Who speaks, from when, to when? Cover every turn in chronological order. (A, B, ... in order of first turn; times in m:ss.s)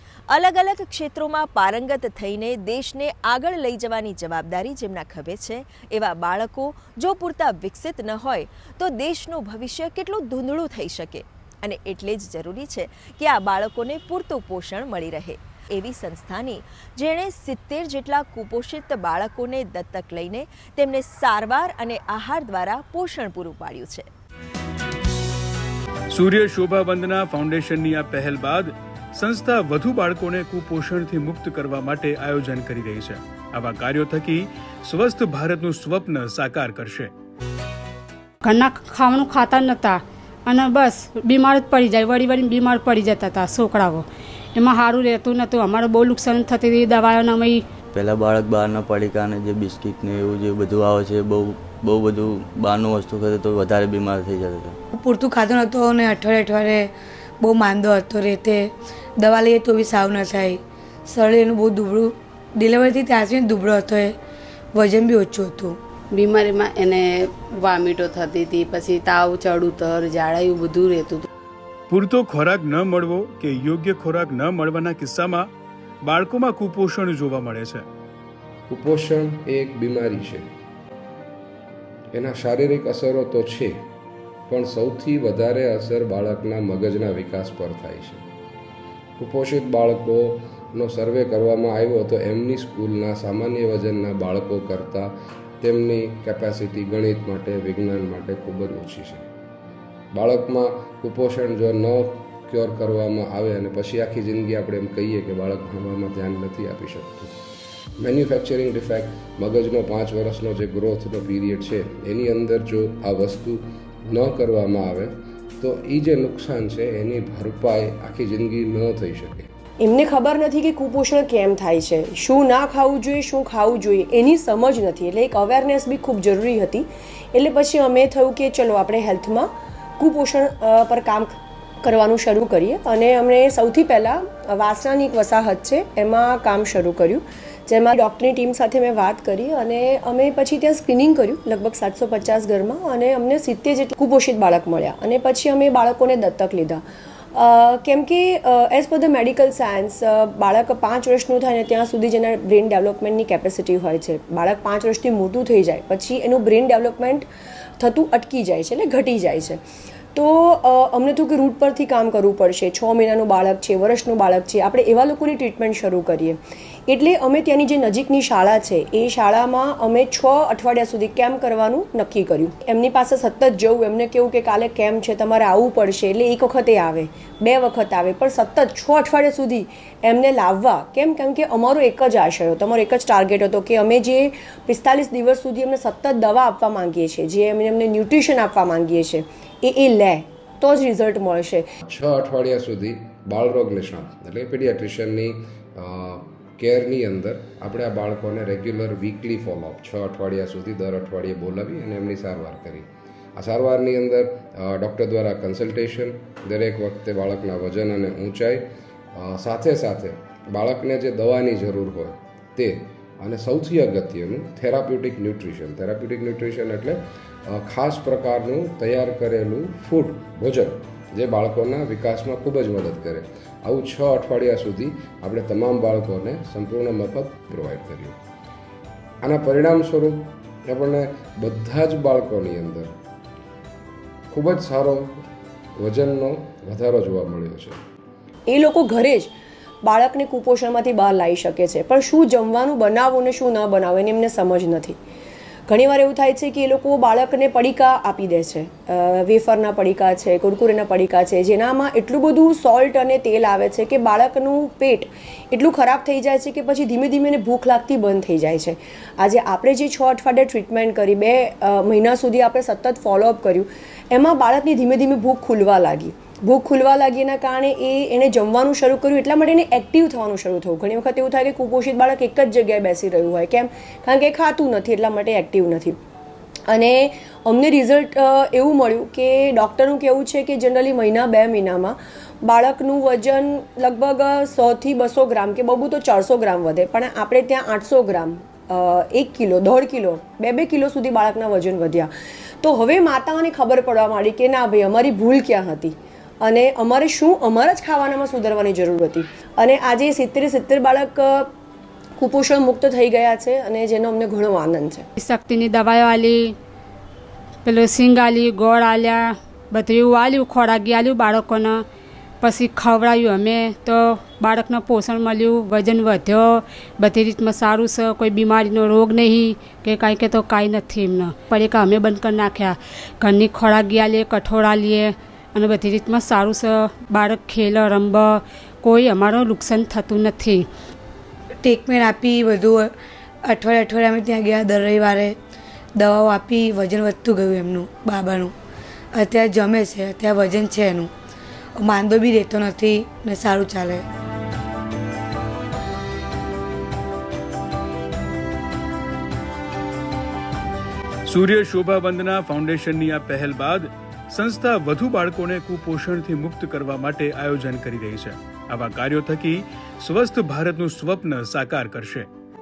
0:00.3-0:24.1 A
0:26.1-0:37.1 B
0:38.4-0:47.6 C
0:47.9-0:54.8 D
0:54.9-0:56.9 E
0:57.4-1:04.2 E
1:04.7-1:05.8 E
1:06.1-1:11.2 F
1:11.9-1:15.5 B
1:16.0-1:17.9 B
1:18.7-1:20.5 G
1:22.1-1:23.8 G
1:24.5-1:28.2 G
1:29.2-1:39.3 G
1:40.1-1:47.4 G
1:48.0-1:59.5 G
1:59.8-2:26.8 H
2:27.3-2:37.3 H
2:37.8-2:39.6 H
2:40.2-3:11.7 H
3:11.8-3:48.2 G
3:49.2-3:52.9 G
3:54.3-3:55.2 G
3:55.8-3:57.8 G
3:58.5-3:59.3 H
3:59.8-4:05.0 H
4:05.7-4:36.0 H
4:36.7-4:52.1 H
4:52.6-5:01.5 H
5:02.2-5:05.1 H
5:05.2-5:06.5 C
5:07.6-5:11.8 C
5:12.4-5:30.7 C
5:31.6-5:32.9 E
5:33.4-5:35.4 E
5:36.0-5:38.5 E
5:39.1-5:41.1 E
5:41.8-5:44.0 E
5:51.3-6:02.3 B